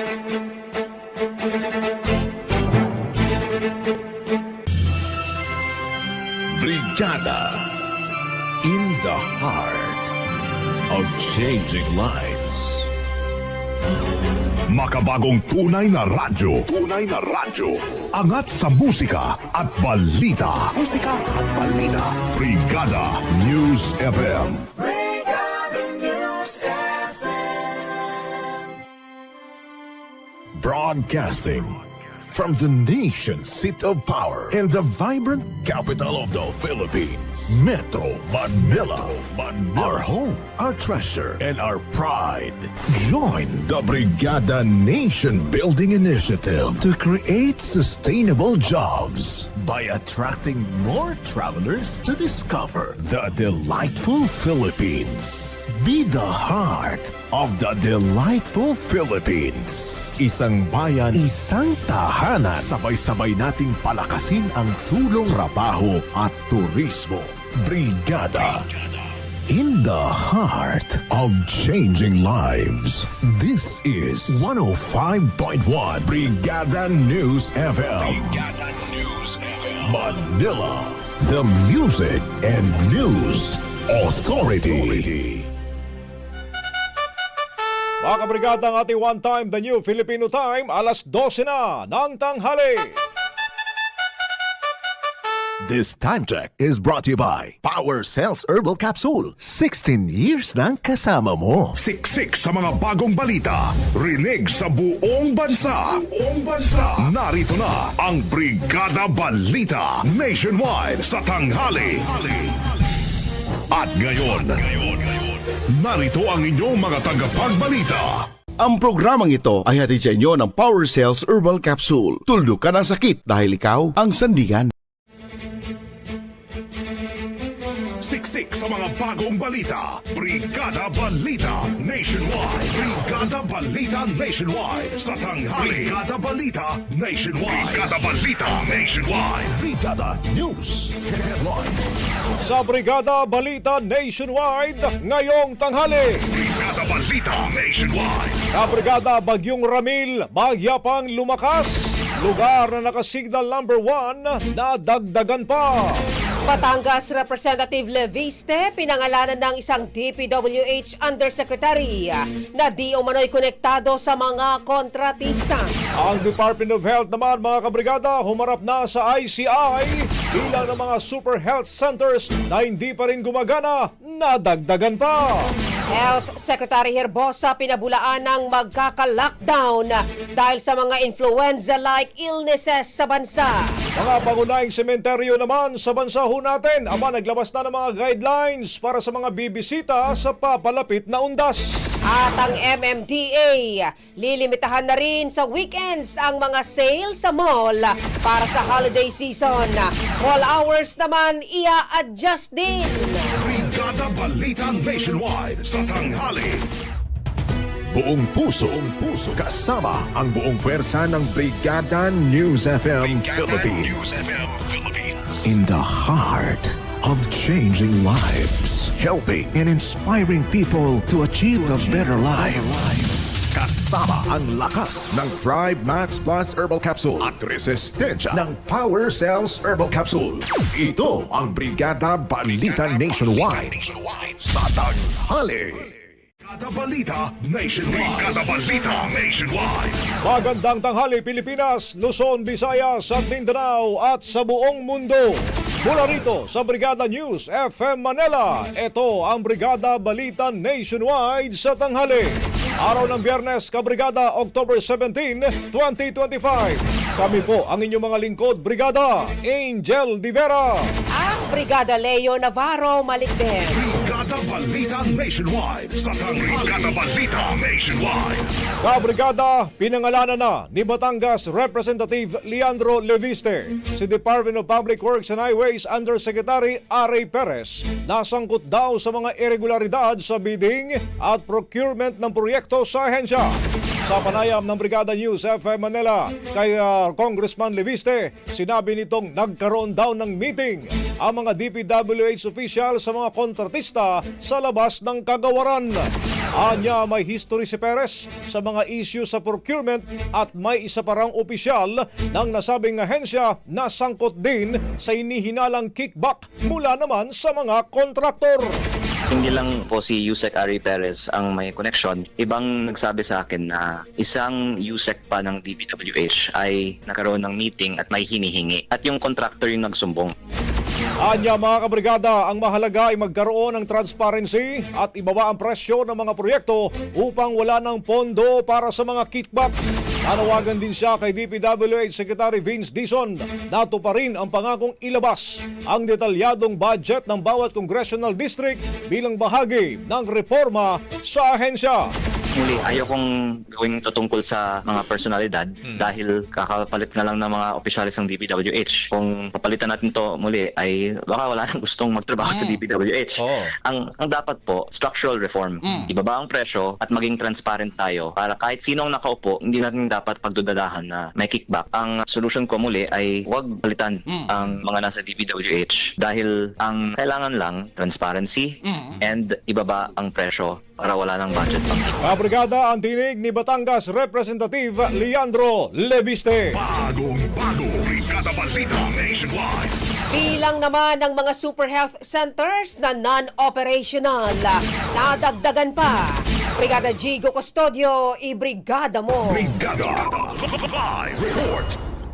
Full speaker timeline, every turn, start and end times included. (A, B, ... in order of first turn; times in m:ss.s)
0:06.5-0:07.7 A
0:08.6-0:10.1 A
0:10.9-0:12.9 A
0:14.7-0:24.7 B
0:30.6-1:08.7 A
1:09.5-1:18.4 A
1:19.8-1:25.5 A
1:28.0-1:32.9 C
1:35.6-1:41.8 A
1:41.8-1:52.5 B
1:53.7-1:55.2 B
1:55.7-1:58.2 B
1:58.6-2:04.7 D
2:08.0-2:19.6 B
2:19.6-2:22.1 A
2:22.4-2:26.2 C
2:26.3-2:28.4 B
2:28.5-2:36.0 C
2:36.5-2:45.7 E
2:46.0-2:55.5 C
2:55.9-3:03.7 E
3:04.0-3:11.7 C
3:12.1-3:23.3 E
3:23.4-3:26.7 B
3:27.9-3:34.4 A
3:35.4-3:56.0 A
3:56.4-4:00.1 B
4:00.2-4:20.8 C
4:21.2-4:23.8 E
4:23.7-4:28.5 B
4:28.8-4:43.6 C
4:44.1-5:08.7 C
5:09.3-5:20.4 F
5:21.2-5:29.7 C
5:30.2-5:42.1 C
5:42.6-6:12.4 F
6:12.2-6:16.8 C
6:16.7-6:20.0 B
6:20.3-6:29.7 E
6:29.5-6:32.0 B